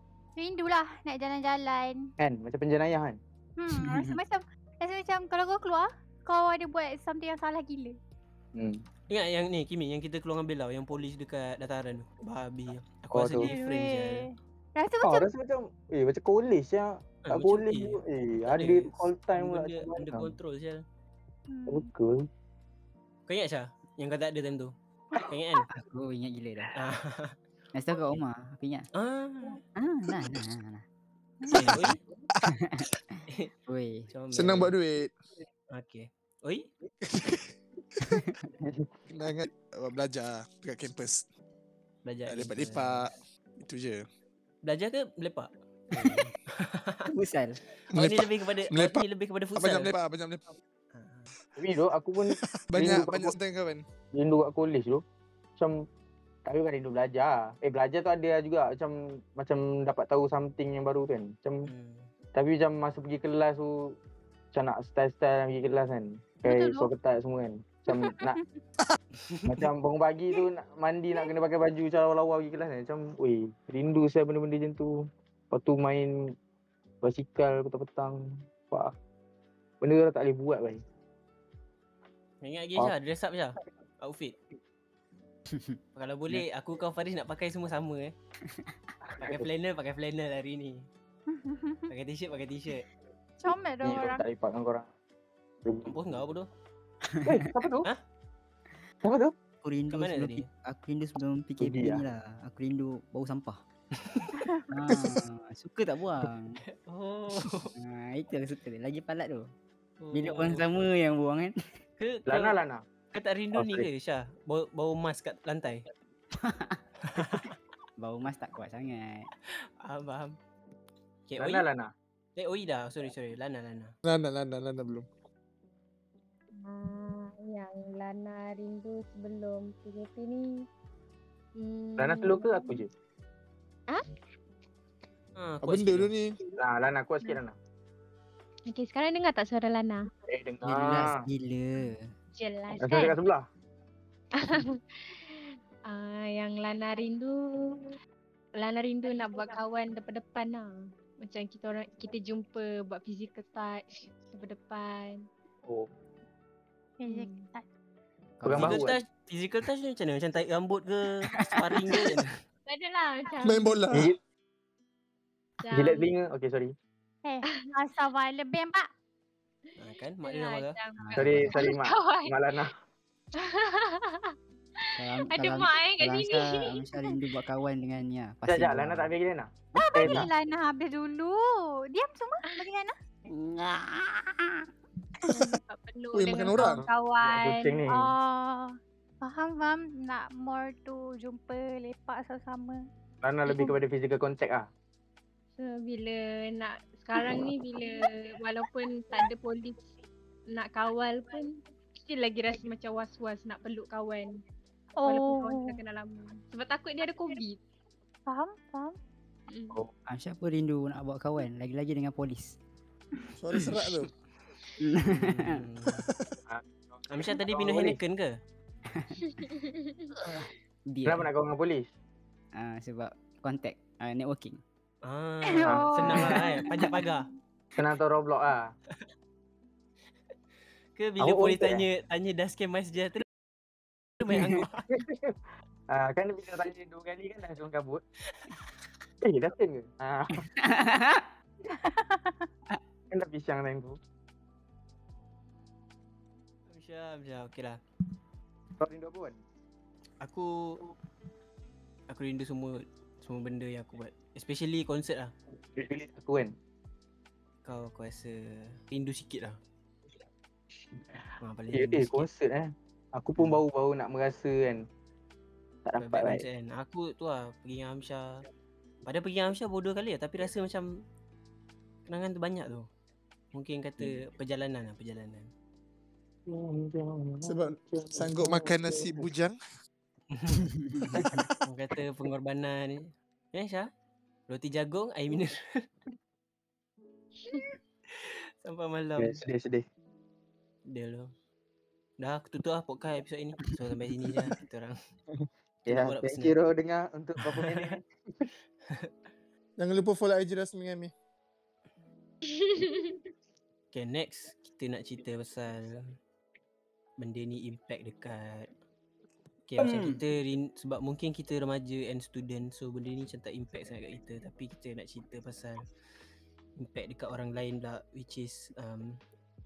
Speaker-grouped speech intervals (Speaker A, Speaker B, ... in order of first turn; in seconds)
Speaker A: 0.4-2.1, 3.6-8.0, 13.4-15.3, 21.5-21.9, 31.4-31.7, 66.4-66.9, 67.9-68.6, 91.3-91.8, 93.4-94.2, 157.0-157.7, 167.2-168.9, 179.8-182.9, 187.9-192.8, 205.0-205.8, 208.3-209.0, 225.6-227.2, 241.7-242.5
Speaker B: 2.2-3.2, 8.6-8.8, 13.1-13.5, 15.0-20.3, 21.7-22.3, 38.6-39.0, 51.6-53.4, 54.1-55.0, 55.6-55.9, 56.5-61.7, 62.4-64.0, 64.5-68.4, 69.5-76.1, 77.0-79.0, 79.8-80.8, 89.0-89.5, 93.8-94.9, 95.6-96.1, 97.2-97.9, 99.0-99.3, 101.6-102.0, 112.3-112.8, 113.5-113.9, 121.4-121.9, 132.0-132.9, 136.6-137.6, 140.3-141.1, 142.8-143.4, 158.4-159.0, 163.9-164.2, 165.7-166.7, 171.2-172.7, 178.5-180.3, 186.6-188.1, 193.2-194.7, 216.5-218.0, 221.1-221.9, 227.8-228.7, 231.2-231.8, 234.4-235.4, 235.9-238.0, 239.2-240.5, 243.1-244.0, 248.8-249.4, 255.8-256.5, 261.0-264.8, 265.9-266.4, 276.5-279.2, 289.2-289.9, 295.9-298.5
Speaker C: 3.8-4.2, 25.7-26.8, 27.7-28.9, 29.8-30.8, 31.5-34.1, 38.0-38.4, 46.0-46.3, 47.1-47.6, 85.5-85.8, 88.5-88.7, 97.1-97.5, 99.6-103.6, 104.7-106.6, 107.7-109.5, 110.1-111.5, 116.4-117.5, 118.0-119.3, 140.6-142.1, 158.4-158.9, 161.3-162.2, 171.0-171.7, 175.0-179.1, 183.3-184.7, 210.1-212.6, 214.8-215.6, 218.9-219.2, 220.3-221.3, 222.6-224.6, 226.1-226.8, 240.6-241.3, 280.8-281.2, 309.8-310.2
Speaker D: 9.1-14.3, 17.3-20.8, 23.3-25.7, 26.8-27.4, 28.9-29.6, 31.5-32.0, 34.1-34.8, 35.7-36.7, 42.0-43.1, 44.6-45.5, 46.0-47.1, 47.9-49.9, 50.9-51.3, 61.7-62.1, 69.2-69.6, 82.4-84.4, 86.0-88.1, 89.2-90.9, 91.9-92.9, 95.8-96.5, 99.9-100.5, 104.0-104.3, 106.7-107.7, 110.0-110.7, 112.0-112.6, 113.1-115.9, 117.1-117.5, 119.5-120.3, 121.3-121.7, 122.4-123.9, 135.4-136.1, 158.5-162.4, 169.8-170.8, 215.1-216.1, 217.1-218.3, 225.0-227.3, 231.0-233.2, 234.2-234.8, 246.7-247.8, 250.2-250.8, 252.1-255.3, 257.6-259.6, 261.4-262.3, 266.0-268.4, 269.1-270.9, 272.1-272.9, 273.5-275.5, 280.3-280.7, 281.6-283.9, 284.5-285.8, 288.1-289.4, 290.9-291.3, 292.2-294.9, 295.9-296.6, 297.5-298.0, 303.9-306.1, 307.2-308.7, 309.7-315.8, 316.8-319.2
Speaker E: 34.3-35.1, 37.1-37.5, 39.1-41.2, 42.3-44.0, 47.9-50.5, 52.3-53.8, 124.0-125.1, 135.6-136.4, 163.4-164.2, 185.2-185.5, 186.1-186.8, 213.4-214.1, 216.0-216.3, 277.4-279.6, 299.8-301.1
Speaker F: 126.6-130.6, 131.6-132.8, 138.7-140.1, 142.4-143.2, 144.4-147.9, 148.6-150.7, 151.2-155.3, 157.1-157.5, 162.7-163.8, 165.6-166.1, 169.7-172.4, 173.4-174.3, 174.9-176.6, 185.3-187.8, 195.6-199.9, 200.5-204.4, 205.1-207.6, 209.5-209.8, 219.2-220.2, 302.5-303.1